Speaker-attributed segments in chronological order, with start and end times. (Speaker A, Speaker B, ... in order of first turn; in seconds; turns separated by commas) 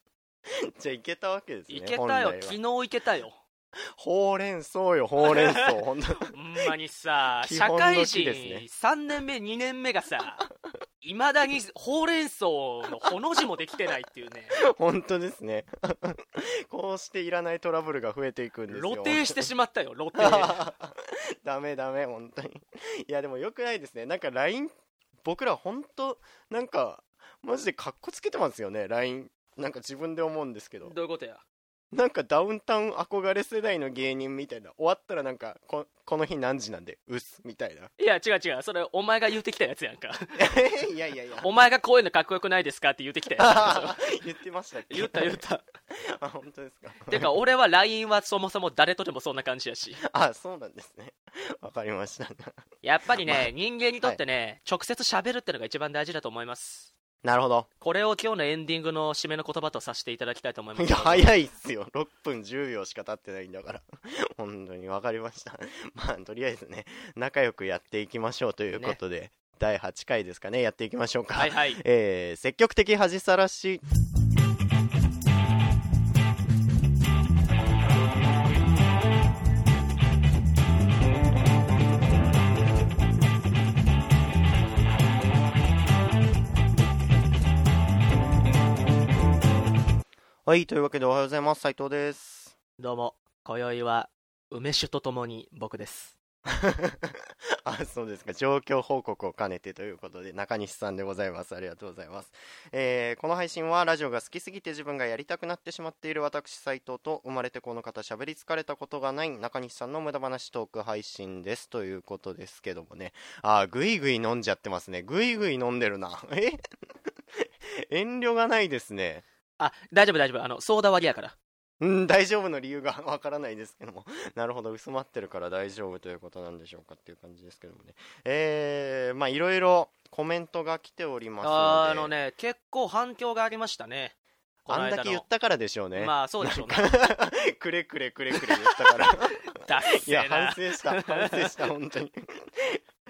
Speaker A: 0.8-2.6, Speaker B: 1.7-3.4, Speaker A: 4.0-6.3, Speaker B: 5.2-5.7, Speaker B: 6.3-10.4, Speaker A: 7.4-8.7, Speaker B: 11.0-14.6, Speaker A: 14.5-19.5, Speaker B: 18.7-20.6, Speaker A: 20.1-24.7, Speaker A: 25.2-30.9, Speaker B: 30.8-31.4, Speaker A: 31.9-37.9, Speaker B: 38.0-40.4, Speaker A: 40.4-41.5, Speaker B: 41.4-44.0, Speaker A: 43.4-45.4, Speaker B: 44.9-45.6, Speaker A: 46.1-47.3, Speaker B: 47.1-50.0, Speaker A: 50.0-52.6, Speaker B: 52.8-56.9, Speaker A: 53.2-53.5, Speaker A: 57.2-57.7, Speaker B: 57.8-61.3, Speaker A: 60.8-73.8, Speaker B: 71.4-71.8, Speaker A: 90.5-92.5, Speaker B: 92.8-96.2, Speaker A: 96.5-116.6, Speaker A: 117.9-119.2, Speaker B: 119.6-121.4, Speaker A: 121.8-132.1, Speaker B: 131.4-134.2, Speaker B: 134.7-135.3, Speaker A: 134.7-142.8, Speaker B: 136.0-136.9, Speaker B: 138.3-138.8, Speaker B: 139.6-141.5